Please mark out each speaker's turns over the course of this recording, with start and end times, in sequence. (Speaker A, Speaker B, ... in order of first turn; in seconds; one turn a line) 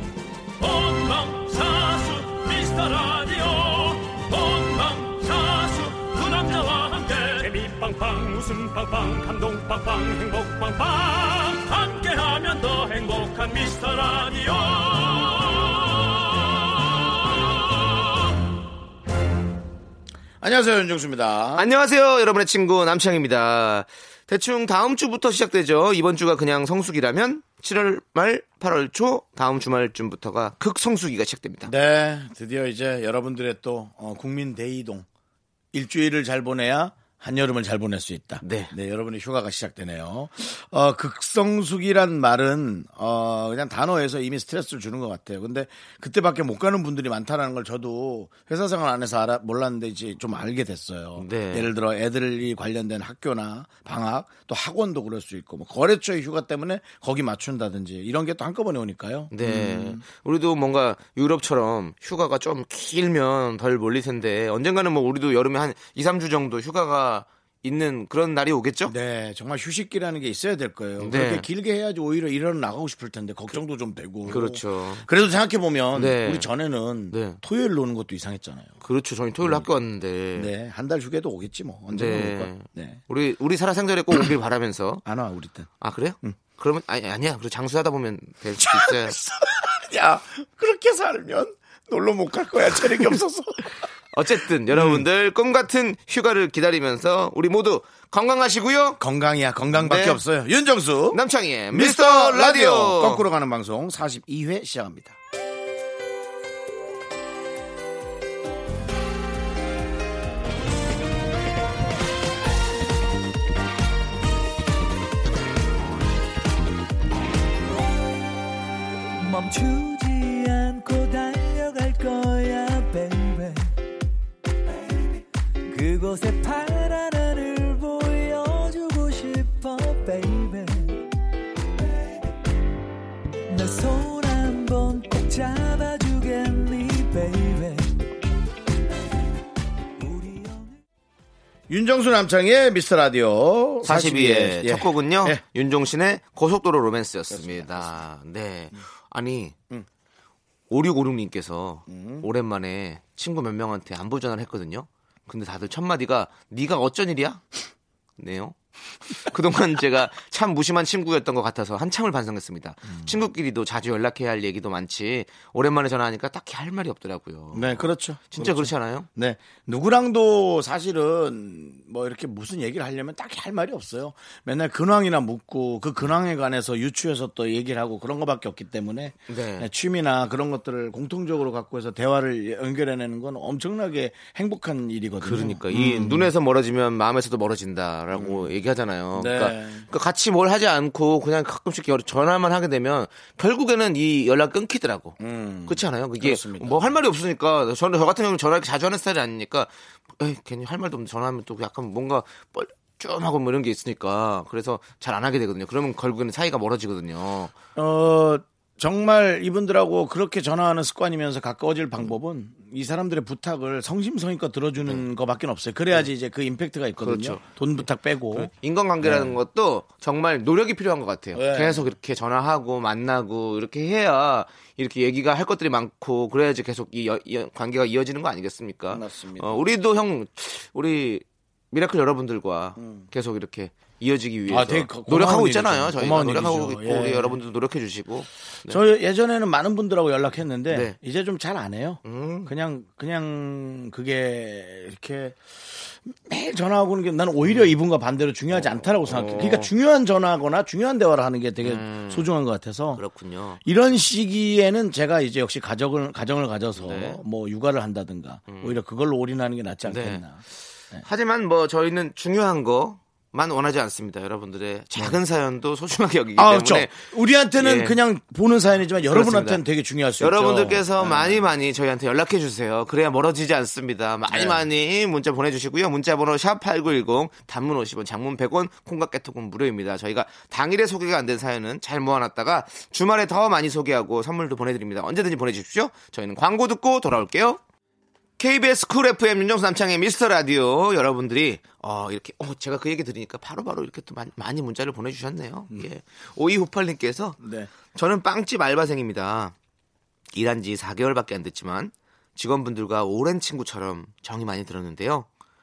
Speaker A: 0.6-18.1
Speaker B: 20.4-21.6
Speaker C: 21.6-31.7
Speaker B: 31.6-35.1
Speaker B: 35.7-60.0
Speaker C: 38.4-38.7
Speaker C: 51.2-51.7
Speaker C: 59.3-68.9
Speaker B: 68.9-78.8
Speaker C: 71.0-71.5
Speaker C: 74.3-75.1
Speaker C: 75.9-76.5
Speaker C: 77.1-77.4
Speaker C: 78.8-80.5
Speaker B: 79.4-79.7
Speaker B: 80.3-83.0
Speaker C: 81.9-85.0
Speaker B: 85.0-85.7
Speaker C: 85.8-89.2
Speaker B: 88.6-93.8
Speaker C: 94.1-99.0
Speaker B: 94.7-95.0
Speaker B: 99.0-101.2
Speaker C: 99.8-100.2
Speaker C: 101.1-103.3
Speaker B: 101.7-105.2
Speaker D: 119.2-123.7
Speaker D: 125.7-131.1
Speaker D: 133.5-137.9
Speaker D: 140.0-140.8
Speaker B: 141.7-145.4
Speaker C: 143.8-149.6
Speaker B: 147.3-148.0
Speaker C: 150.7-157.4
Speaker B: 151.9-152.3
Speaker C: 158.2-158.6
Speaker C: 159.1-169.1
Speaker B: 162.9-163.2
Speaker B: 167.5-186.3
Speaker C: 179.3-179.7
Speaker C: 185.2-207.5
Speaker B: 188.1-188.5
Speaker B: 189.2-189.9
Speaker B: 195.2-197.0
Speaker B: 207.8-219.4
Speaker C: 217.0-217.4
Speaker C: 218.3-238.8
Speaker B: 221.3-221.9
Speaker B: 228.9-229.6
Speaker B: 232.8-233.1
Speaker B: 234.5-237.4
Speaker B: 238.7-253.0
Speaker C: 240.7-241.0
Speaker C: 242.0-242.5
Speaker C: 247.4-247.8
Speaker C: 248.5-249.7
Speaker C: 251.6-252.3
Speaker C: 252.9-253.6
Speaker B: 253.6-261.1
Speaker C: 256.8-257.2
Speaker C: 258.5-258.8
Speaker C: 259.9-260.2
Speaker C: 261.0-268.0
Speaker B: 266.4-271.5
Speaker C: 269.1-269.6
Speaker C: 270.2-287.6
Speaker B: 274.3-274.6
Speaker C: 288.4-297.4
Speaker B: 297.4-297.7
Speaker C: 297.9-299.6
Speaker C: 300.3-305.3